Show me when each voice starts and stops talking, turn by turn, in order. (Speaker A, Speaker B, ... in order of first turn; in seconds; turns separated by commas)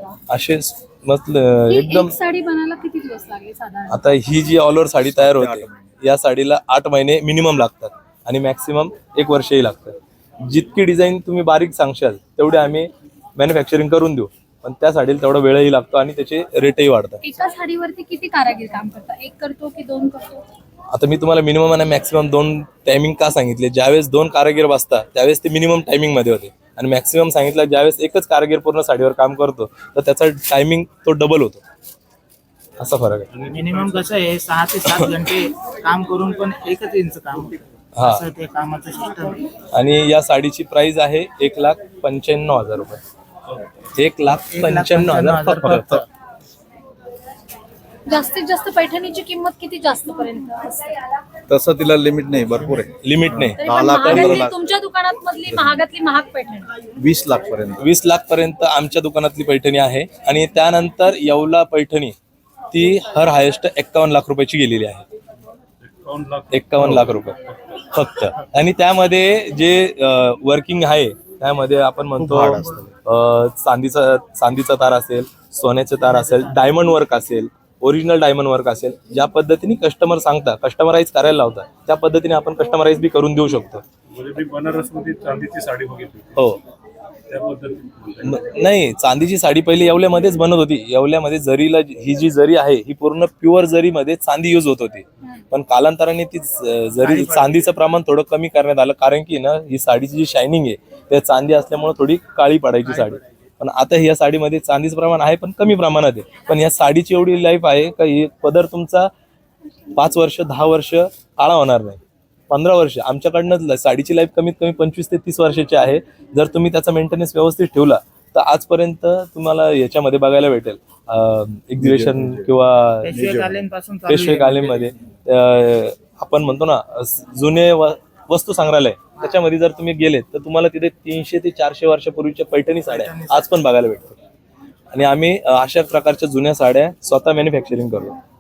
Speaker A: 0.3-2.1, Speaker B: 1.7-4.1, Speaker A: 3.9-17.2, Speaker C: 5.0-6.0, Speaker B: 17.2-20.4, Speaker A: 20.9-31.6, Speaker A: 32.8-33.3, Speaker D: 33.3-34.0, Speaker E: 33.5-39.4, Speaker A: 34.9-35.1, Speaker A: 38.0-38.2, Speaker A: 39.7-43.0, Speaker A: 44.0-46.0, Speaker E: 44.5-46.0, Speaker C: 45.7-46.0, Speaker B: 48.1-51.0, Speaker C: 51.5-54.5, Speaker A: 53.0-54.4, Speaker B: 53.6-56.7, Speaker C: 55.5-55.8, Speaker C: 57.0-57.9, Speaker A: 57.8-62.1, Speaker A: 62.7-65.1, Speaker D: 66.0-67.7, Speaker A: 66.5-83.8, Speaker C: 72.2-72.9, Speaker D: 84.1-86.4, Speaker A: 86.4-86.6, Speaker D: 87.3-88.3, Speaker A: 88.2-109.1, Speaker E: 97.0-97.7, Speaker E: 102.9-103.2, Speaker A: 110.0-123.2, Speaker C: 121.8-122.5, Speaker E: 123.0-124.9, Speaker C: 123.1-123.7, Speaker A: 124.1-134.2, Speaker E: 132.9-133.5, Speaker A: 134.9-138.2